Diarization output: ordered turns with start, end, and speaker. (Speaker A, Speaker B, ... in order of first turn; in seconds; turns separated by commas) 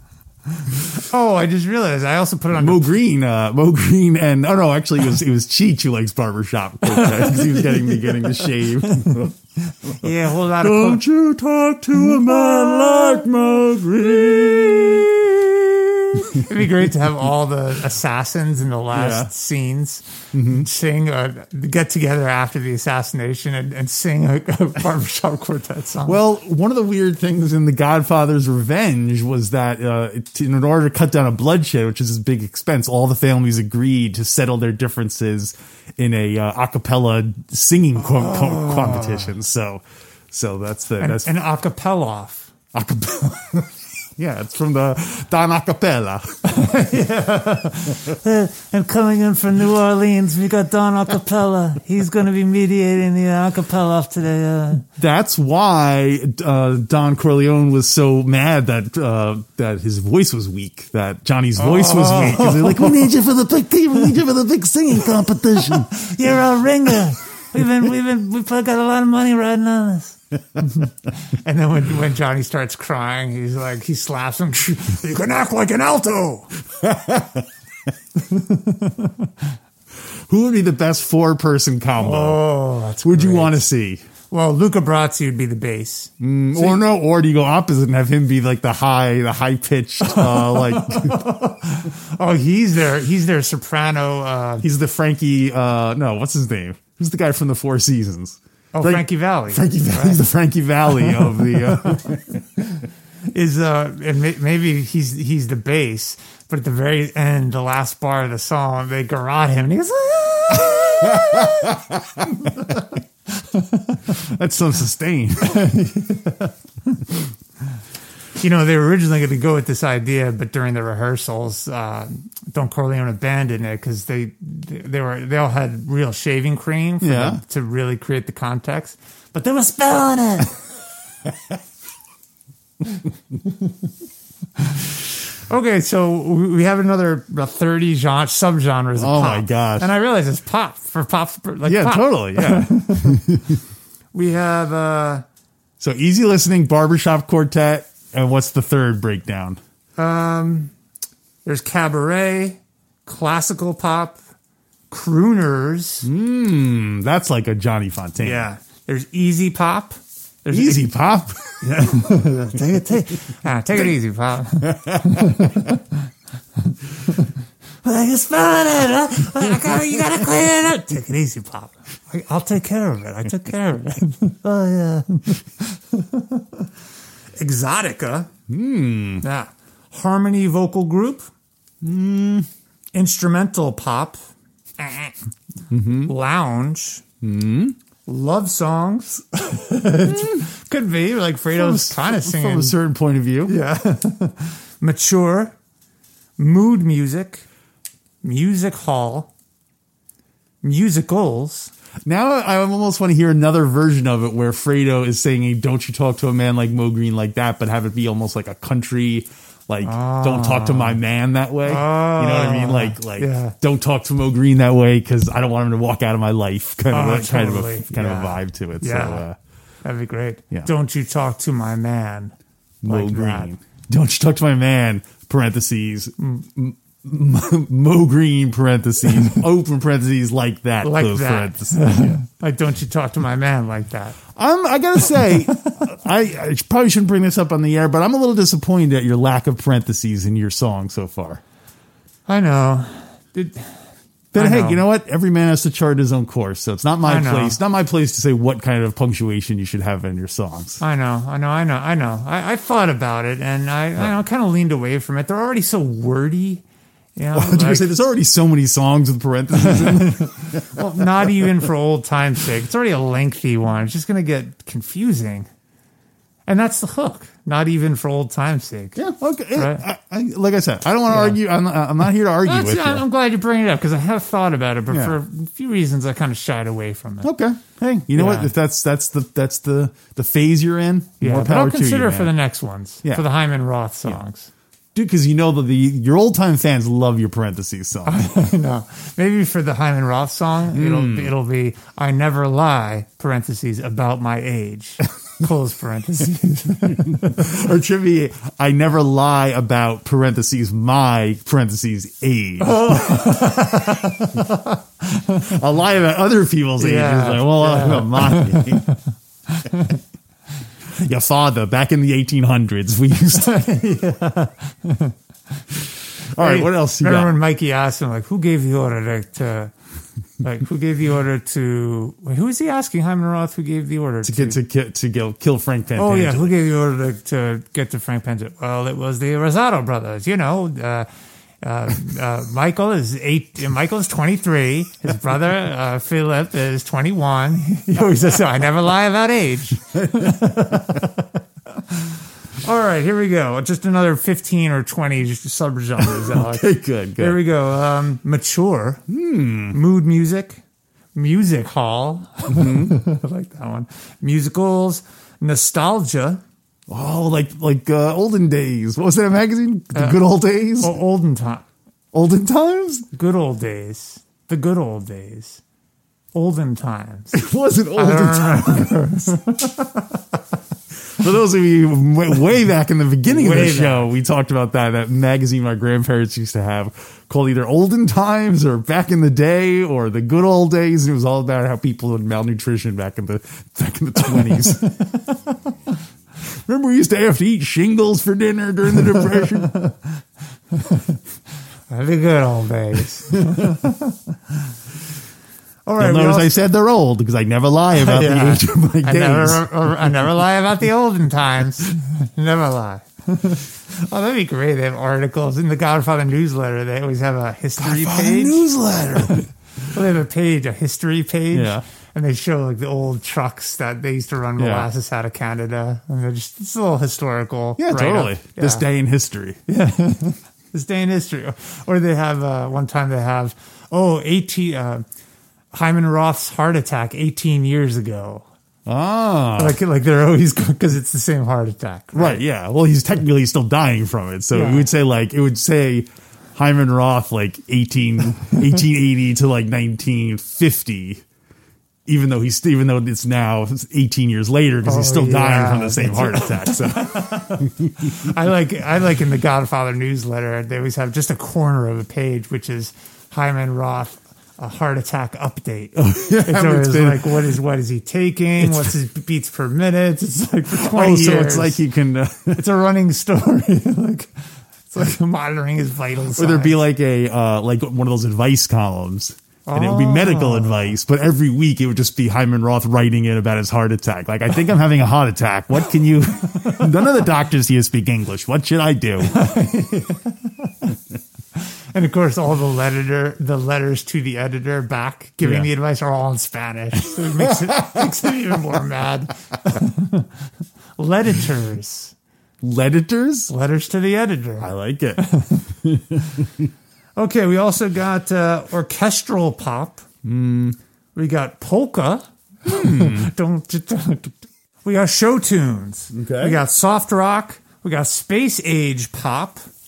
Speaker A: 0.9-2.9, Speaker B: 2.5-9.3, Speaker A: 6.9-11.0, Speaker B: 10.0-16.5, Speaker A: 12.2-13.2, Speaker A: 16.1-26.2, Speaker B: 18.9-19.3, Speaker B: 20.3-20.7, Speaker B: 26.1-41.3, Speaker A: 38.1-39.3, Speaker A: 41.0-42.5, Speaker B: 42.7-46.4, Speaker A: 46.5-54.9, Speaker B: 55.0-65.9, Speaker A: 61.6-63.1, Speaker A: 65.3-76.5, Speaker B: 76.8-77.5, Speaker A: 78.2-79.3, Speaker B: 80.3-82.5, Speaker A: 82.0-83.6, Speaker B: 83.0-84.0, Speaker A: 84.3-86.8, Speaker B: 86.2-91.3, Speaker A: 90.1-94.7, Speaker B: 94.6-102.4, Speaker A: 98.7-100.2, Speaker A: 102.1-111.8, Speaker B: 111.0-112.7, Speaker A: 112.5-112.8, Speaker A: 113.5-114.0, Speaker B: 114.1-115.8, Speaker A: 115.5-117.0, Speaker A: 118.4-130.6, Speaker B: 127.0-127.4, Speaker A: 135.5-143.2, Speaker B: 139.0-139.9, Speaker B: 141.7-143.6, Speaker A: 144.1-145.2, Speaker B: 145.8-149.6, Speaker A: 150.0-150.7, Speaker A: 151.4-154.2, Speaker A: 154.9-156.1, Speaker B: 156.0-158.5, Speaker A: 158.2-160.9, Speaker B: 160.5-161.4, Speaker A: 161.6-165.9, Speaker B: 164.6-165.4, Speaker A: 167.8-176.7, Speaker A: 177.4-178.3, Speaker B: 178.5-179.2, Speaker A: 179.2-181.3, Speaker B: 181.8-182.5, Speaker A: 182.9-184.2, Speaker A: 184.8-185.2, Speaker B: 185.7-186.1, Speaker A: 185.9-187.0, Speaker B: 187.2-187.8, Speaker A: 188.1-192.8, Speaker B: 190.1-190.4, Speaker B: 191.5-193.6, Speaker A: 193.5-195.6, Speaker A: 196.4-197.4, Speaker A: 198.2-199.3, Speaker A: 200.6-201.7, Speaker B: 202.1-219.3, Speaker A: 209.8-211.0, Speaker A: 211.7-213.5, Speaker A: 216.9-219.2, Speaker A: 219.8-223.5, Speaker B: 222.8-232.2, Speaker A: 230.8-234.2, Speaker B: 234.3-241.4, Speaker A: 242.3-243.7, Speaker B: 244.3-250.8, Speaker A: 244.3-244.8, Speaker A: 247.0-247.6, Speaker A: 250.8-256.6, Speaker A: 257.2-257.9, Speaker B: 257.3-261.6, Speaker A: 259.6-265.5, Speaker A: 266.5-269.0, Speaker B: 269.0-273.0, Speaker A: 269.6-269.8, Speaker A: 271.1-271.4, Speaker A: 272.4-277.3, Speaker B: 274.9-275.2, Speaker B: 277.2-282.3, Speaker A: 278.1-278.5, Speaker A: 281.2-284.5, Speaker B: 284.9-288.2, Speaker A: 288.1-297.5, Speaker B: 290.7-291.3, Speaker B: 296.9-304.4, Speaker A: 302.6-305.5, Speaker B: 305.3-308.9, Speaker A: 306.8-310.0, Speaker B: 310.9-313.6, Speaker A: 313.3-315.1, Speaker B: 316.3-317.4, Speaker A: 316.4-319.7, Speaker A: 320.4-324.6, Speaker B: 324.2-326.5, Speaker A: 326.0-331.1, Speaker A: 331.6-341.2, Speaker B: 339.9-341.0, Speaker A: 341.9-349.0, Speaker B: 346.0-347.4, Speaker B: 349.1-349.8, Speaker A: 349.7-350.6, Speaker A: 351.1-356.4, Speaker B: 352.5-353.0, Speaker B: 356.9-361.0, Speaker A: 360.8-361.7, Speaker B: 362.1-363.1, Speaker A: 363.1-365.6, Speaker A: 366.3-367.4, Speaker B: 367.3-369.2, Speaker A: 367.9-370.0, Speaker B: 371.1-385.0, Speaker A: 373.2-374.1, Speaker A: 384.5-385.4, Speaker B: 386.5-389.8, Speaker A: 389.1-390.0, Speaker A: 390.7-391.2, Speaker A: 391.9-394.2, Speaker B: 393.5-393.7, Speaker A: 395.9-396.6, Speaker B: 396.0-399.7, Speaker A: 397.9-408.6, Speaker B: 407.8-409.5, Speaker A: 409.9-418.8, Speaker B: 411.5-411.8, Speaker B: 414.6-414.9, Speaker B: 417.8-419.6, Speaker A: 419.7-425.0, Speaker A: 425.7-428.4, Speaker B: 428.9-429.8, Speaker A: 429.6-432.4, Speaker B: 432.1-441.2, Speaker A: 434.5-434.9, Speaker B: 442.1-448.3, Speaker A: 444.8-461.8, Speaker B: 456.0-457.5, Speaker B: 458.6-458.9, Speaker B: 460.7-462.6, Speaker A: 462.5-464.3, Speaker A: 464.9-466.8, Speaker B: 466.4-479.4, Speaker A: 469.7-470.9, Speaker A: 476.5-477.0, Speaker A: 479.2-480.9, Speaker A: 481.9-490.3, Speaker B: 485.4-485.7, Speaker B: 487.4-488.1, Speaker A: 491.0-492.1, Speaker B: 492.6-493.5, Speaker A: 493.5-495.7, Speaker B: 494.6-496.7, Speaker A: 497.2-500.1, Speaker B: 500.2-500.8, Speaker A: 501.1-509.6, Speaker B: 502.7-503.3, Speaker B: 506.1-506.6